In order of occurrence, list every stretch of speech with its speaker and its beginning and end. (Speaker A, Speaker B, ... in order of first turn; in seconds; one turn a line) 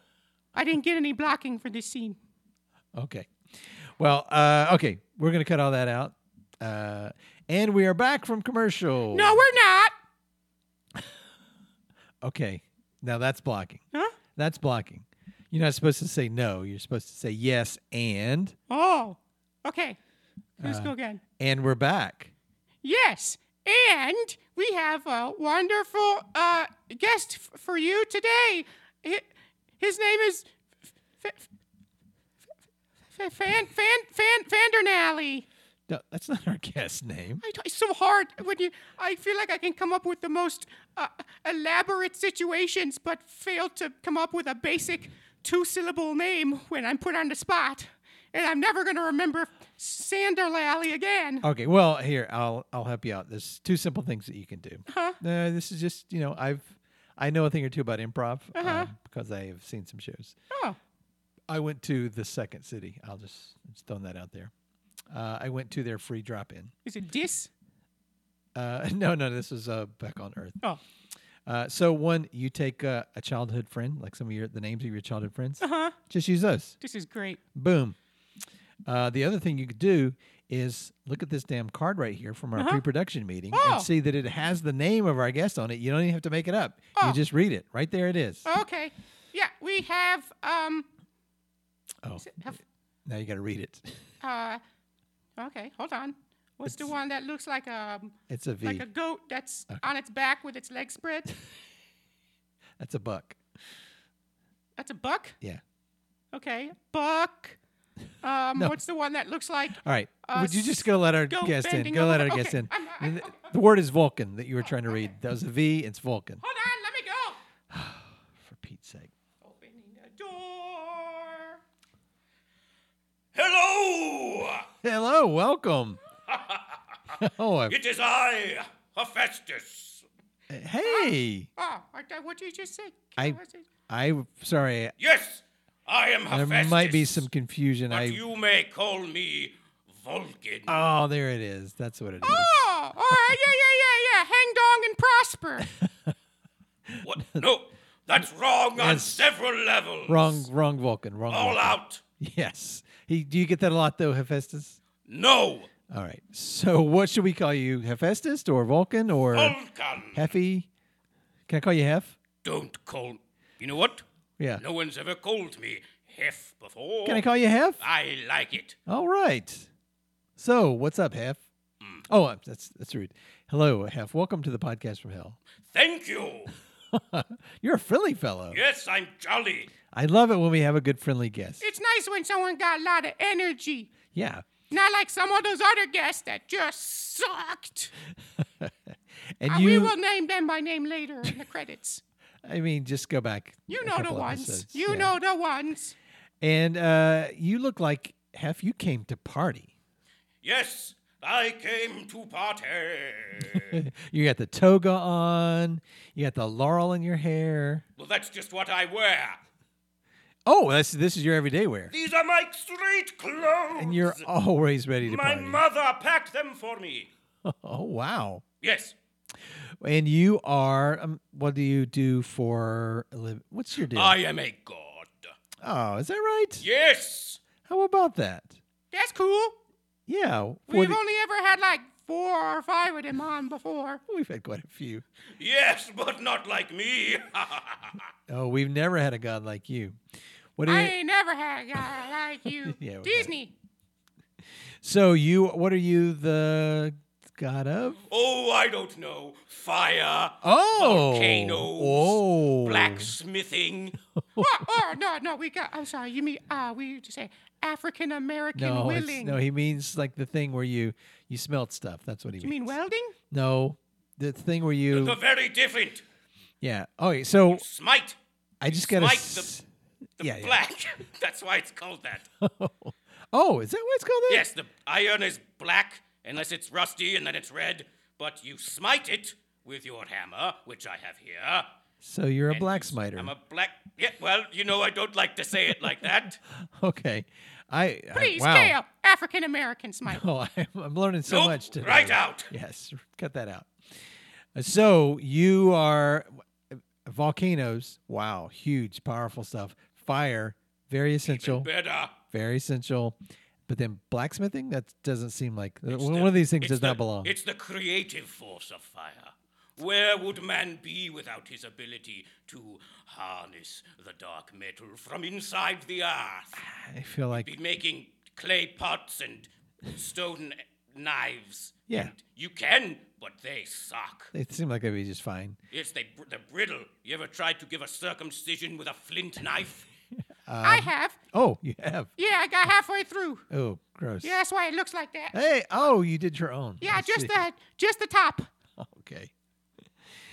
Speaker A: 0.5-2.2
Speaker B: 3.0-9.4
Speaker A: 9.1-9.9
Speaker B: 12.2-13.8
Speaker B: 14.4-18.6
Speaker A: 18.7-20.0
Speaker B: 20.6-22.3
Speaker A: 20.6-21.2
Speaker A: 22.8-30.5
Speaker A: 31.2-31.5
Speaker A: 33.1-35.5
Speaker B: 35.9-37.4
Speaker A: 37.4-51.5
Speaker B: 51.4-60.4
Speaker A: 54.9-55.2
Speaker A: 58.5-58.9
Speaker A: 60.5-60.8
Speaker B: 61.5-64.5
Speaker B: 65.1-66.7
Speaker A: 66.8-67.5
Speaker B: 68.5-70.6
Speaker B: 71.5-76.8
Speaker A: 75.6-76.0
Speaker A: 76.8-77.4
Speaker B: 77.5-78.0
Speaker B: 78.9-88.5
Speaker A: 82.6-82.8
Speaker A: 83.5-83.9
Speaker A: 88.5-90.9
Speaker B: 92.0-92.5
Speaker A: 92.2-92.6
Speaker B: 93.1-94.1
Speaker A: 94.2-94.6
Speaker A: 95.4-101.3
Speaker B: 96.7-96.9
Speaker B: 98.3-98.9
Speaker B: 102.8-103.4
Speaker A: 104.8-105.4
Speaker A: 106.3-107.6
Speaker A: 108.2-113.5
Speaker B: 109.8-116.4
Speaker A: 116.4-117.4
Speaker B: 117.7-119.1
Speaker A: 119.4-121.6
Speaker C: 123.3-124.7
Speaker B: 124.8-126.0
Speaker C: 126.3-127.2
Speaker B: 127.1-127.8
Speaker C: 127.7-130.1
Speaker B: 130.5-131.5
Speaker A: 130.8-133.7
Speaker B: 133.2-134.9
Speaker C: 135.0-137.3
Speaker B: 136.3-138.2
Speaker C: 137.9-140.7
Speaker B: 140.7-143.4
Speaker A: 142.2-145.7
Speaker B: 145.7-146.1
Speaker B: 146.9-147.4
Speaker C: 147.0-150.4
Speaker B: 148.8-149.3
Speaker B: 150.1-154.8
Speaker C: 151.3-152.0
Speaker C: 155.1-155.7
Speaker B: 155.9-159.6
Speaker C: 159.3-160.3
Speaker B: 160.1-160.7
Speaker B: 161.5-162.2
Speaker C: 162.4-164.0
Speaker C: 164.6-167.2
Speaker B: 167.1-167.8
Speaker C: 167.8-168.8
Speaker B: 168.9-169.7
Speaker B: 170.4-171.4
Speaker B: 172.1-175.4
Speaker C: 175.7-176.5
Speaker B: 176.9-178.6
Speaker C: 178.5-179.7
Speaker B: 179.9-181.6
Speaker A: 181.6-183.9
Speaker B: 184.1-184.5
Speaker A: 184.7-187.9
Speaker B: 188.4-189.9
Speaker A: 189.5-192.0
Speaker B: 192.4-195.1
Speaker A: 193.7-195.9
Speaker B: 196.4-199.7
Speaker C: 200.4-203.8
Speaker B: 203.5-207.8
Speaker C: 208.0-209.4
Speaker B: 210.5-211.9
Speaker C: 211.9-214.2
Speaker B: 213.8-215.6
Speaker C: 215.1-217.1
Speaker B: 217.4-218.4
Speaker C: 218.6-218.9
Speaker B: 219.5-224.2
Speaker C: 223.9-225.3
Speaker B: 225.6-226.7
Speaker C: 226.6-227.4
Speaker B: 227.7-228.6
Speaker A: 228.9-229.6
Speaker B: 230.1-231.0
Speaker A: 230.7-234.0
Speaker B: 234.1-235.1
Speaker C: 235.4-238.0
Speaker B: 238.3-240.0
Speaker B: 240.6-240.9
Speaker A: 240.7-243.5
Speaker B: 242.6-243.3
Speaker B: 244.8-248.0
Speaker C: 248.1-254.0
Speaker B: 250.4-253.2
Speaker B: 254.3-254.8
Speaker A: 254.4-259.4
Speaker B: 258.5-262.7
Speaker A: 262.4-263.2
Speaker B: 263.3-265.2
Speaker C: 264.9-266.0
Speaker B: 266.6-267.6
Speaker C: 267.5-269.5
Speaker B: 268.6-269.6
Speaker B: 270.2-270.6
Speaker C: 270.2-272.3
Speaker B: 272.4-274.5
Speaker C: 274.3-281.7
Speaker B: 282.0-283.3
Speaker C: 282.5-286.4
Speaker B: 286.5-288.8
Speaker A: 288.1-290.2
Speaker B: 290.1-301.7
Speaker C: 291.3-292.5
Speaker C: 301.2-302.1
Speaker B: 302.3-307.3
Speaker C: 305.9-316.6
Speaker B: 316.6-317.5
Speaker C: 317.3-324.3
Speaker B: 321.9-322.1
Speaker B: 324.3-325.6
Speaker C: 325.7-329.9
Speaker B: 330.5-332.1
Speaker A: 330.6-331.2
Speaker A: 332.2-333.5
Speaker B: 333.5-334.4
Speaker A: 334.2-335.4
Speaker B: 335.3-337.4
Speaker A: 336.8-338.5
Speaker B: 338.8-339.3